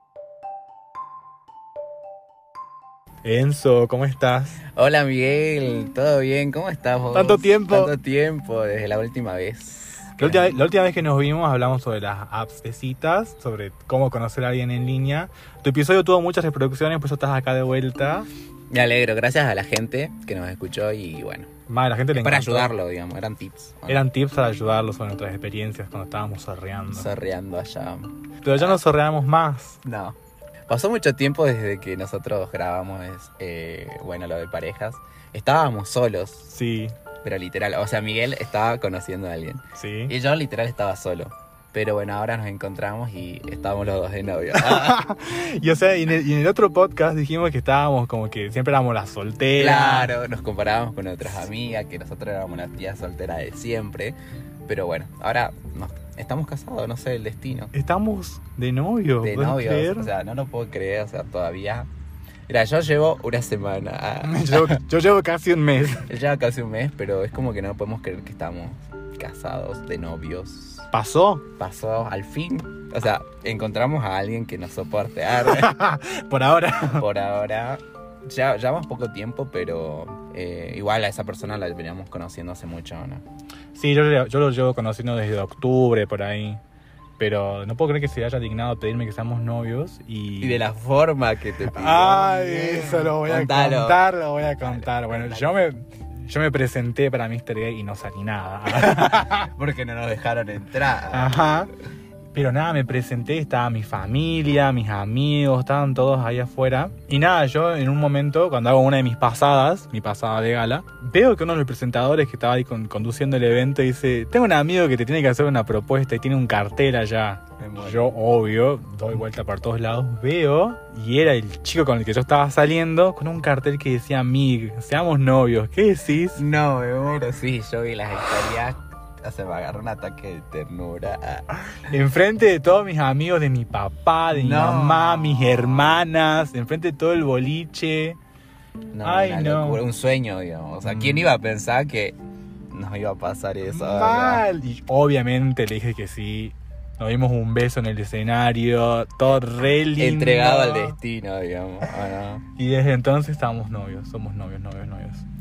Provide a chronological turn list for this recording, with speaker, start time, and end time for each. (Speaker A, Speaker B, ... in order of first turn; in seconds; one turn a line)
Speaker A: 3.2-4.6
Speaker B: 4.7-10.6
Speaker A: 7.1-7.9
Speaker A: 10.2-18.3
Speaker B: 18.7-21.5
Speaker A: 21.7-22.7
Speaker B: 22.1-24.1
Speaker A: 23.9-27.1
Speaker B: 26.9-28.8
Speaker A: 28.4-29.8
Speaker B: 29.8-30.2
Speaker B: 30.7-36.5
Speaker A: 36.5-37.0
Speaker B: 37.2-45.1
Speaker A: 39.8-40.1
Speaker A: 44.5-50.1
Speaker B: 49.6-57.7
Speaker A: 57.7-60.1
Speaker B: 59.2-61.9
Speaker B: 62.5-64.8
Speaker A: 64.2-66.1
Speaker B: 66.0-70.9
Speaker A: 70.9-71.4
Speaker B: 71.6-75.8
Speaker A: 75.4-77.1
Speaker B: 76.8-83.2
Speaker A: 83.8-86.6
Speaker A: 87.2-90.7
Speaker B: 90.4-95.6
Speaker A: 91.7-99.5
Speaker B: 98.7-101.4
Speaker A: 101.1-101.7
Speaker A: 102.3-126.4
Speaker B: 117.6-118.1
Speaker B: 126.3-131.8
Speaker A: 131.9-138.2
Speaker B: 134.3-136.0
Speaker B: 138.9-142.2
Speaker A: 139.0-139.8
Speaker A: 140.9-141.2
Speaker B: 142.7-144.5
Speaker A: 143.7-151.0
Speaker B: 150.0-152.4
Speaker A: 152.6-155.3